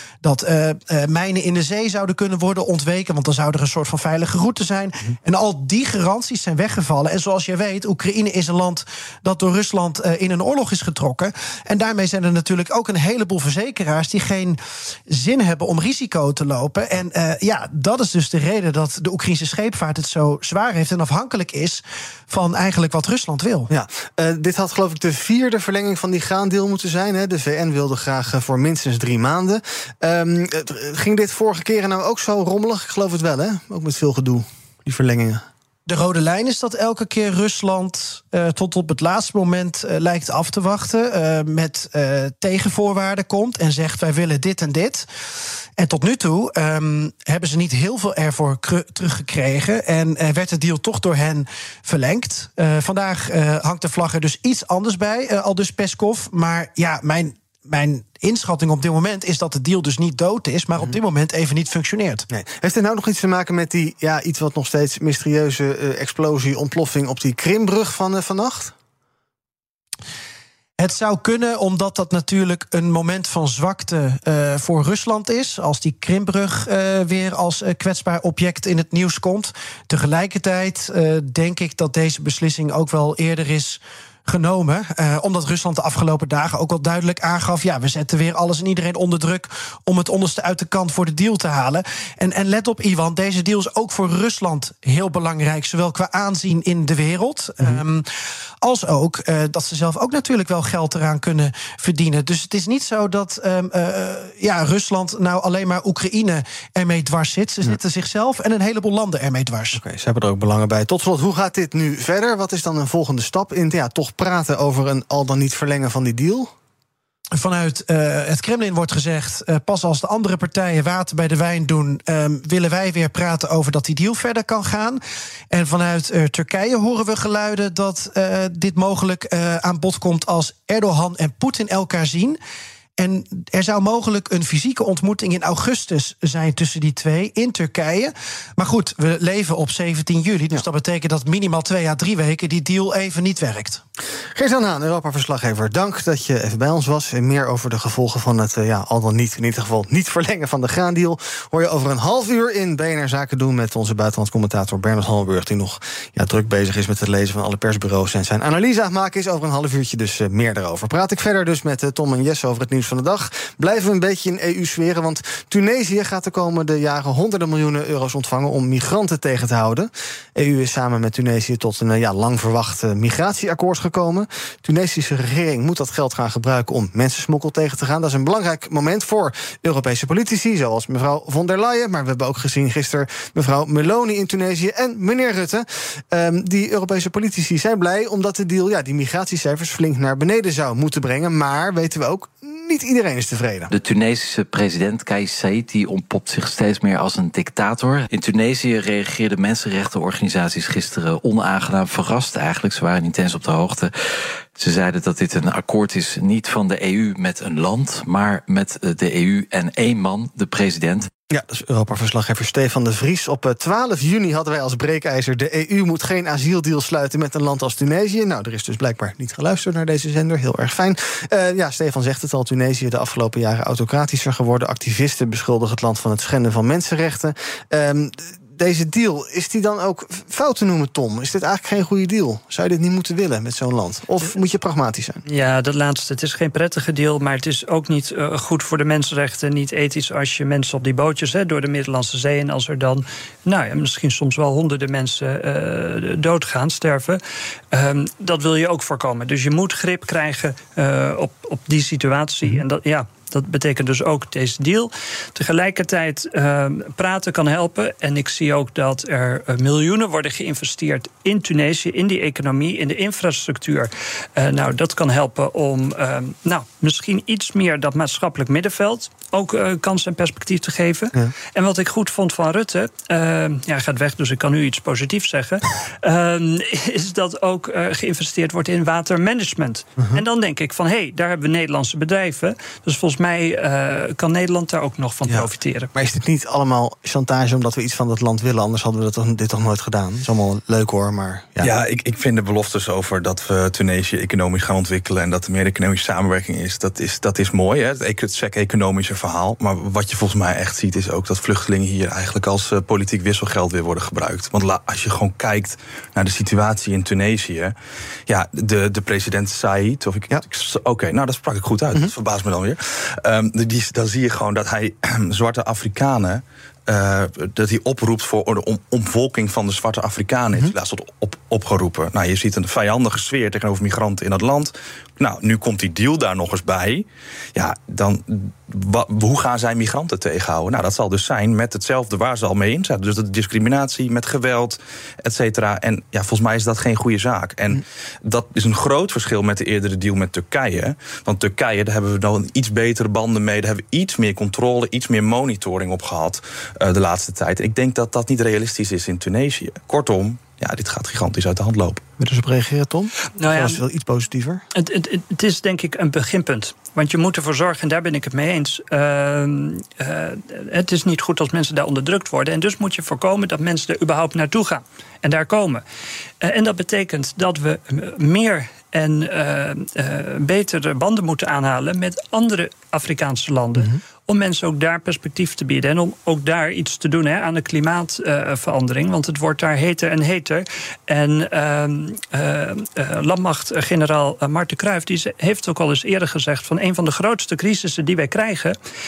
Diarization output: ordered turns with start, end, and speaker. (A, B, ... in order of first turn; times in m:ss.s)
0:00.2-0:23.7 A
0:23.7-0:35.4 B
0:35.8-0:45.1 A
0:45.8-1:02.3 A
1:02.3-1:08.7 B
1:10.8-1:38.0 A
1:38.6-1:49.8 A
1:49.7-1:56.5 B
1:57.3-2:05.0 A
2:05.5-2:12.4 A
2:13.0-2:23.8 A
2:24.3-3:13.7 B
3:13.7-3:23.9 C
3:24.5-3:31.1 C
3:31.3-3:55.2 B
3:55.2-4:07.2 D
4:07.7-4:45.9 D
4:40.0-4:40.2 B
4:45.3-4:51.7 B
4:51.6-5:07.7 E
5:08.3-5:52.0 E
5:52.2-5:54.6 B
5:53.4-5:53.8 D
5:54.7-6:05.8 D
6:06.4-6:28.8 D